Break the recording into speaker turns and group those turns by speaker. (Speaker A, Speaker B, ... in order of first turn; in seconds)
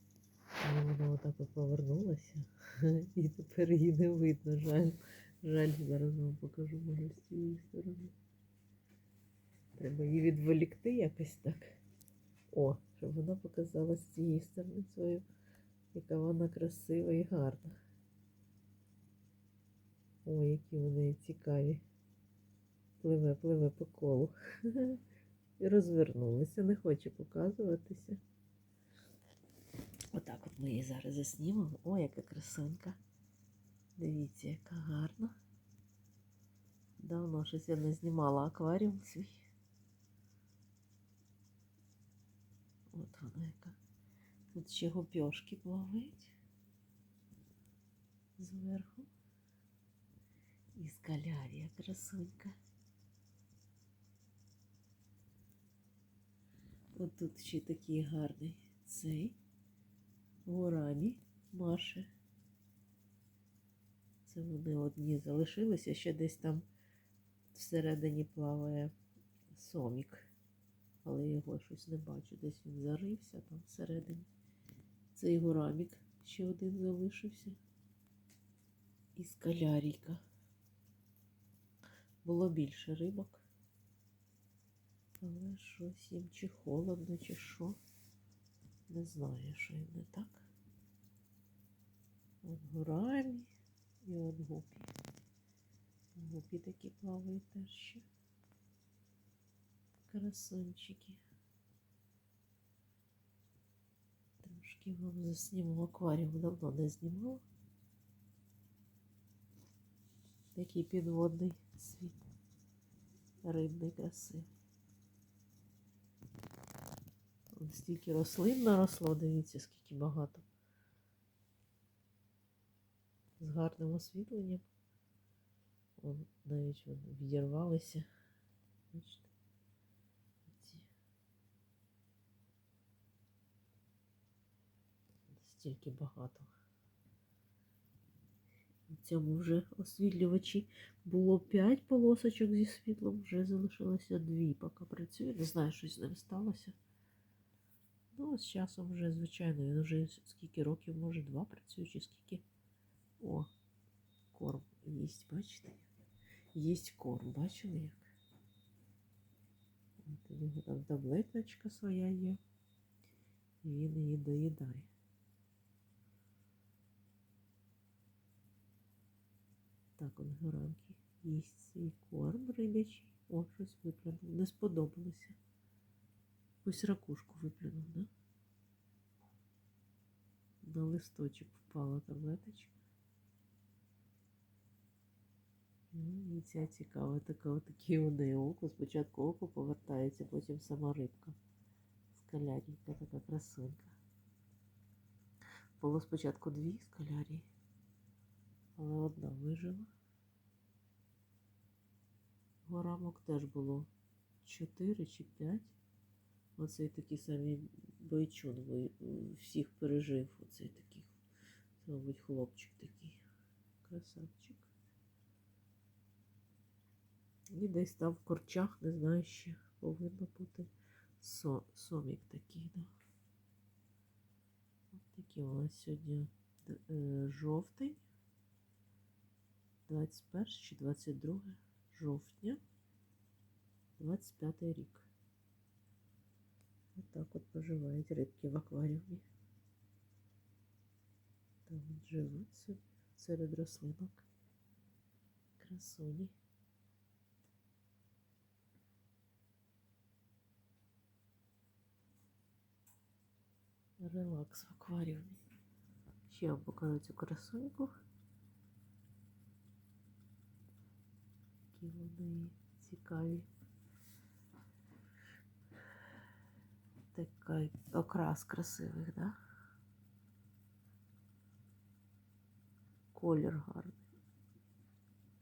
Speaker A: 0.6-8.1, 9.8-11.8, 12.5-15.2, 15.9-17.8, 20.2-21.8, 23.0-25.0, 25.6-28.2, 30.1-33.0, 34.0-35.4, 37.0-39.4, 42.9-43.8, 44.5-46.4, 48.4-49.1, 50.8-52.5, 56.9-59.4, 60.4-62.1, 64.2-66.6, 67.5-68.9, 69.5-70.3, 71.0-74.3, 75.1-77.6, 79.2-80.2, 82.2-83.4, 85.2-87.8, 88.9-90.5, 92.4-93.5, 94.0-94.9, 96.1-98.0, 100.0-101.2, 104.4-107.4, 110.5-112.2, 113.4-114.5, 117.5-120.4, 123.4-124.6, 126.0-128.1, 128.9-129.3, 130.5-130.9, 135.3-136.5, 138.9-146.7, 148.1-152.4, 153.2-153.5, 154.3-155.9, 156.5-158.1, 160.0-162.4, 163.6-164.9, 170.0-175.4, 176.6-178.1, 180.6-182.7, 185.9-191.3, 192.1-193.9, 195.8-197.5, 198.8-199.9, 202.7-203.9, 204.4-205.7, 206.6-211.1, 211.8-213.2, 213.8-214.7, 217.5-222.9, 224.9-228.0, 229.9-232.6, 234.0-235.1, 236.9-239.2, 241.7-244.2, 245.6-246.3, 254.0-255.4, 256.3-257.9, 261.7-263.5, 267.1-269.4, 273.1-274.1